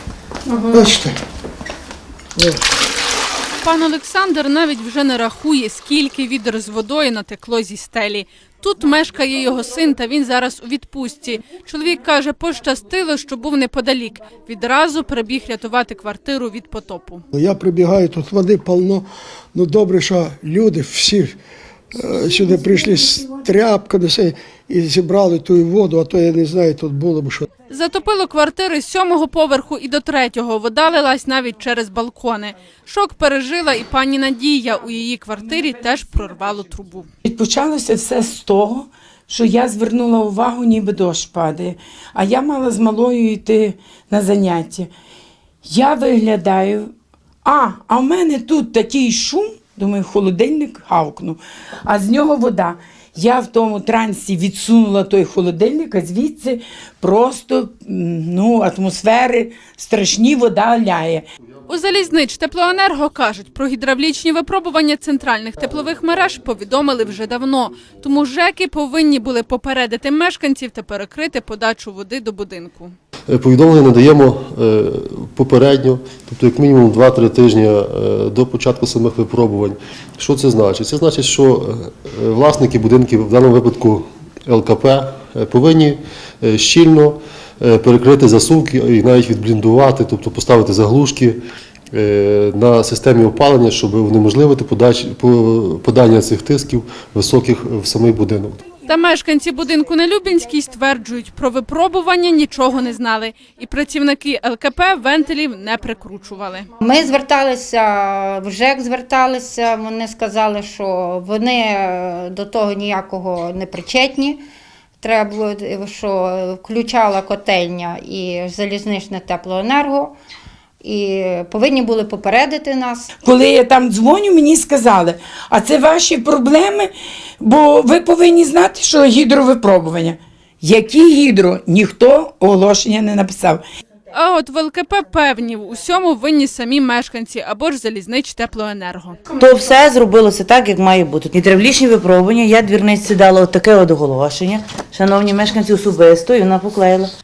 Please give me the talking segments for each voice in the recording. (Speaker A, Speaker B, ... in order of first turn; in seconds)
Speaker A: 0.7-1.2, 2.4-2.6, 17.3-21.4, 21.9-27.5
Speaker B: 3.6-17.2, 27.7-37.1, 61.7-72.9, 98.8-106.7, 134.1-139.2
Speaker C: 37.3-44.9, 45.6-46.9, 47.4-61.2, 123.2-133.6
Speaker D: 73.3-91.4, 91.9-98.6
Speaker E: 106.8-114.4, 115.0-120.2, 120.8-123.1
Speaker F: 139.4-147.1